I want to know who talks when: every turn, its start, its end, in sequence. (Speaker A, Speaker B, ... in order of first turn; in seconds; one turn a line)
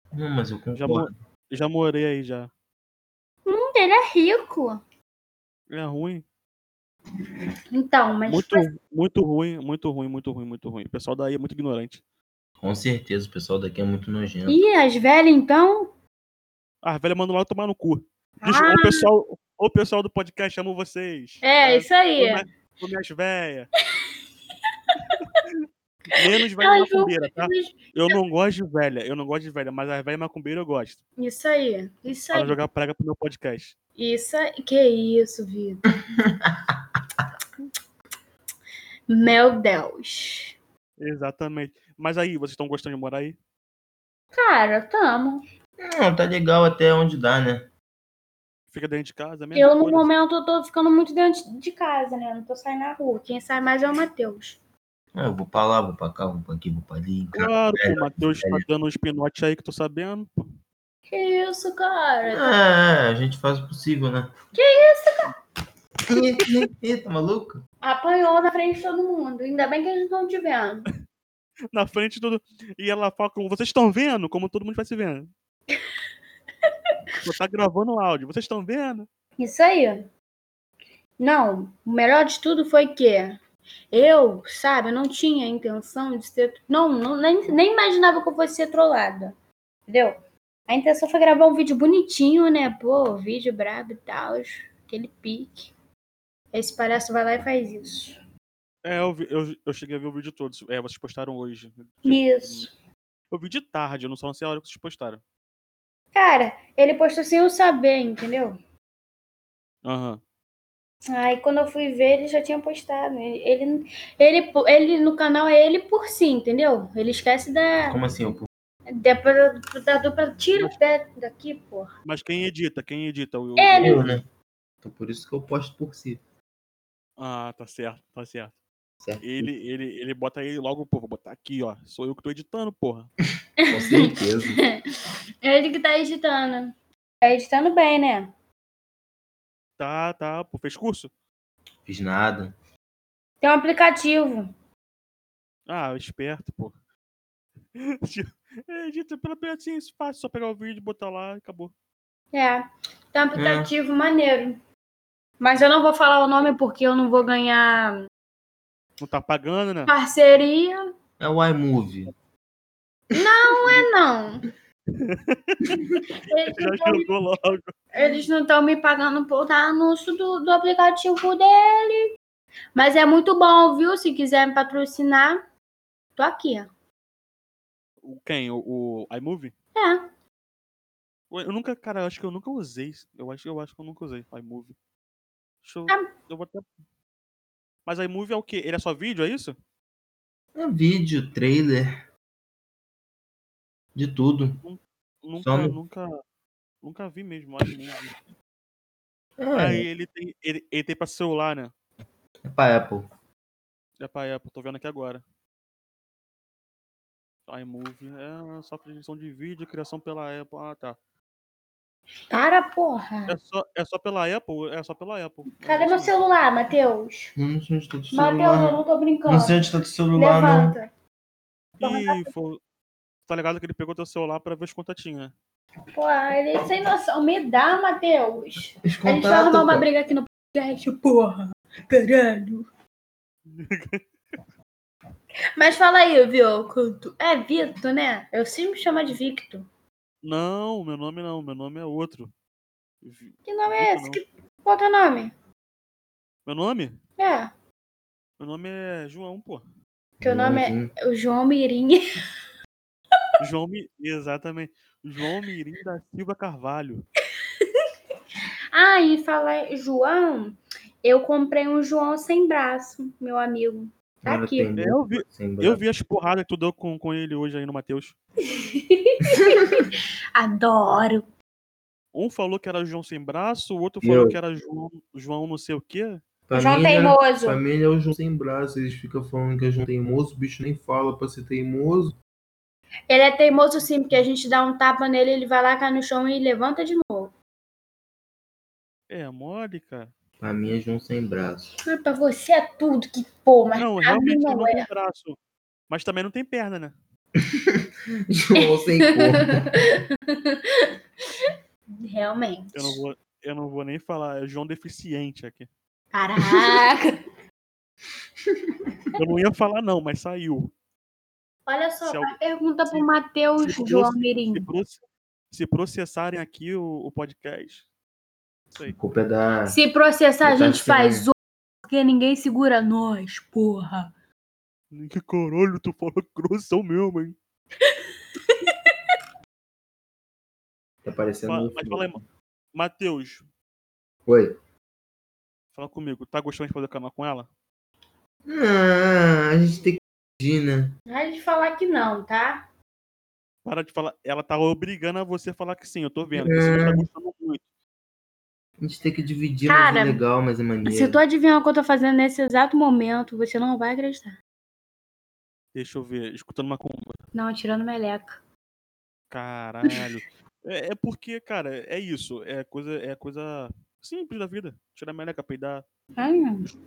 Speaker A: 0.1-1.1
Speaker B: 0.8-2.5
Speaker C: 3.5-4.8
Speaker B: 5.7-6.2
Speaker C: 7.7-8.7
Speaker B: 8.3-12.0
Speaker A: 12.6-14.6
Speaker C: 14.5-15.9
Speaker B: 16.8-23.7
Speaker C: 18.4-19.1
Speaker C: 21.4-22.4
Speaker C: 24.9-25.2
Speaker B: 26.1-31.0
Speaker C: 26.2-28.1
Speaker C: 31.2-32.6
Speaker B: 32.3-33.8
Speaker C: 34.0-35.8
Speaker A: 36.1-36.8
Speaker C: 39.1-40.6
Speaker B: 41.0-43.4
Speaker C: 44.3-45.4
Speaker A: 45.8-47.7
Speaker B: 48.7-50.1
Speaker C: 49.5-54.6
Speaker A: 55.1-58.6
Speaker B: 57.4-60.3
Speaker C: 61.1-62.5
Speaker A: 62.3-64.3
Speaker C: 64.5-65.3
Speaker A: 66.1-67.6
Speaker C: 67.8-70.9
Speaker B: 71.7-75.3
Speaker B: 77.2-79.1
Speaker C: 79.4-80.1
Speaker C: 81.2-83.4
Speaker C: 83.9-89.3
Speaker C: 89.9-95.7
Speaker C: 96.5-98.2
Speaker B: 98.8-102.7
Speaker C: 102.0-102.7
Speaker B: 103.3-105.2
Speaker C: 106.1-108.6
Speaker B: 109.8-110.2
Speaker C: 111.1-118.0
Speaker A: 117.9-118.5
Speaker C: 118.9-121.9
Speaker B: 122.0-124.1
Speaker C: 123.6-124.1
Speaker A: 123.8-124.2
Speaker A: 124.8-126.2
Speaker B: 127.2-128.5
Speaker A: 129.0-129.5
Speaker B: 129.2-133.1
Speaker C: 133.6-134.7
Speaker A: 133.7-134.6
Speaker C: 135.4-138.3
Speaker B: 139.8-141.1
Speaker A: 141.8-142.5
Speaker C: 143.4-144.5
Speaker B: 145.7-146.7
Speaker B: 147.7-151.7
Speaker C: 152.3-154.6
Speaker A: 153.3-153.7
Speaker C: 155.4-158.0
Speaker B: 159.0-159.9
Speaker C: 159.9-160.9
Speaker A: 161.2-162.1
Speaker C: 163.1-164.5
Speaker B: 164.9-165.9
Speaker C: 166.2-167.1
Speaker B: 166.5-167.7
Speaker C: 167.9-172.1
Speaker C: 172.7-175.4
Speaker C: 176.2-176.7
Speaker B: 178.0-179.5
Speaker C: 179.8-180.1
Speaker B: 181.3-184.7
Speaker B: 185.6-186.7
Speaker B: 187.8-189.6
Speaker A: 190.6-191.9
Speaker A: 193.9-194.6
Speaker B: 194.6-196.1
Speaker A: 195.4-195.7
Speaker B: 196.8-198.2
Speaker A: 199.4-199.8
Speaker B: 199.5-201.7
Speaker A: 202.4-203.1
Speaker B: 204.0-205.2
Speaker B: 207.5-211.0
Speaker C: 212.3-213.3
Speaker B: 213.3-216.1
Speaker C: 215.6-217.3
Speaker A: 217.3-220.7
Speaker C: 218.1-219.6
Speaker C: 220.2-220.9
Speaker B: 221.8-222.6
Speaker C: 221.8-222.3
Speaker B: 223.3-225.3
Speaker C: 225.9-232.7
Speaker A: 228.8-229.8
Speaker B: 233.5-234.0
Speaker C: 235.6-239.7
Speaker B: 240.2-242.3
Speaker B: 243.0-244.2
Speaker C: 243.4-245.3
Speaker B: 246.4-247.0
Speaker C: 247.2-247.5
Speaker B: 248.4-249.6
Speaker A: 250.2-250.9
Speaker C: 250.2-252.0
Speaker B: 253.4-257.1
Speaker C: 258.7-264.7
Speaker A: 264.2-265.8
Speaker B: 264.8-268.1
Speaker C: 268.4-271.3
Speaker B: 272.1-276.2
Speaker A: 274.0-274.4
Speaker A: 276.5-282.2
Speaker C: 276.5-277.6
Speaker C: 283.1-287.3
Speaker B: 289.1-290.1
Speaker A: 290.4-291.7
Speaker C: 291.8-294.9
Speaker B: 293.7-295.4
Speaker B: 295.9-296.9
Speaker A: 297.4-299.7
Speaker C: 298.6-300.9
Speaker C: 301.4-303.0
Speaker B: 302.7-305.7
Speaker C: 306.1-307.2
Speaker B: 309.1-310.7
Speaker C: 311.7-314.6
Speaker B: 312.0-312.3
Speaker B: 313.6-317.8
Speaker A: 318.9-319.8
Speaker C: 319.7-324.1
Speaker A: 320.4-321.2
Speaker B: 324.9-327.4
Speaker C: 327.9-328.9
Speaker A: 331.0-332.1
Speaker B: 331.4-332.2
Speaker B: 332.7-333.4
Speaker A: 334.2-334.5
Speaker B: 335.7-337.5
Speaker A: 338.5-340.9
Speaker C: 341.1-342.6
Speaker B: 343.6-347.6
Speaker A: 346.3-347.0
Speaker A: 348.8-351.2
Speaker C: 349.6-350.2
Speaker C: 350.9-354.4
Speaker B: 355.7-357.2
Speaker C: 357.3-358.4
Speaker B: 359.3-365.8
Speaker C: 366.2-366.6